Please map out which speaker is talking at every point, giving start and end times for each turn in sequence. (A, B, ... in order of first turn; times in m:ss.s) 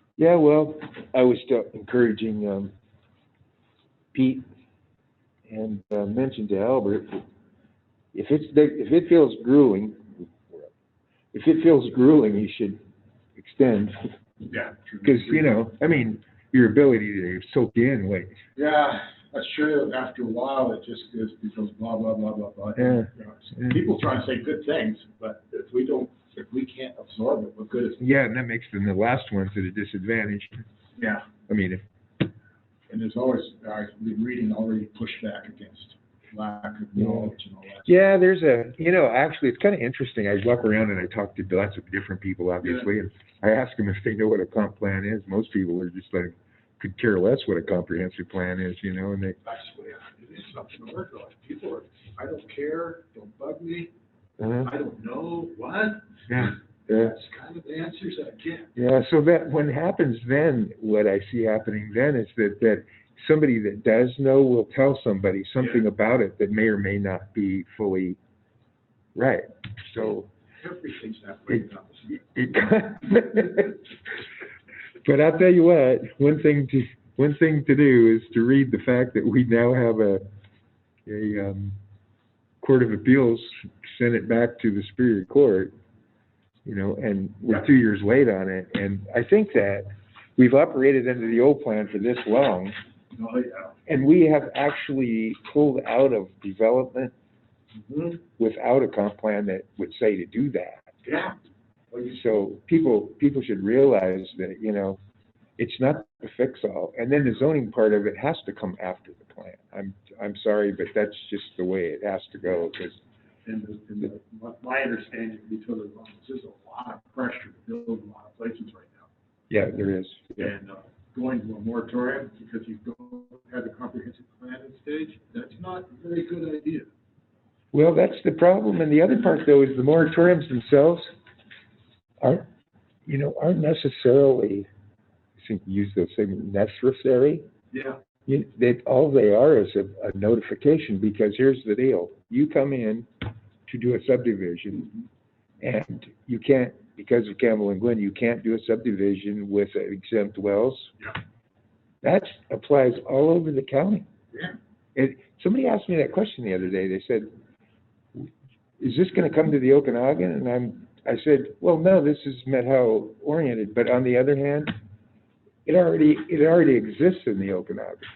0:00.2-0:02.7 A
0:04.1-0:04.4 A
0:05.5-0:07.2 A
0:08.1-0:10.7 A
0:11.3-0:12.8 A
0:13.4-0:14.0 A
0:14.5-0:15.5 B
0:15.0-0:18.4 A
0:18.6-0:28.0 B
0:22.8-0:23.8 A
0:28.0-0:30.7 A
0:31.0-0:31.3 B
0:31.5-0:31.8 A
0:32.9-0:38.0 B
0:37.0-0:37.3 A
0:37.9-0:49.4 A
0:42.6-0:42.9 B
0:49.4-0:53.9 B
0:54.4-0:54.7 A
0:54.6-0:58.7 B
0:56.3-0:57.2 A
0:58.8-1:08.2 A
1:09.2-1:10.3 A
1:10.6-1:12.3 B
1:12.1-1:13.8 A
1:15.0-1:20.2 A
1:21.1-1:21.8 A
1:22.6-1:25.7 A
1:26.6-1:32.7 A
1:33.1-1:33.8 B
1:33.9-1:37.1 A
1:37.8-1:38.2 B
1:38.4-1:40.8 A
1:41.0-1:41.4 B
1:42.0-1:45.0 A
1:45.6-1:53.0 A
1:53.4-1:59.1 B
1:59.5-2:00.5 A
2:00.4-2:06.9 B
2:07.7-2:11.1 A
2:12.2-2:12.5 A
2:13.1-2:14.7 A
2:15.4-2:17.4 A
2:17.7-2:18.0 B
2:18.3-2:23.1 A
2:23.7-2:24.9 A
2:25.6-2:30.9 A
2:32.0-2:34.1 A
2:35.0-2:37.3 A
2:38.8-2:44.7 A
2:45.7-2:48.0 A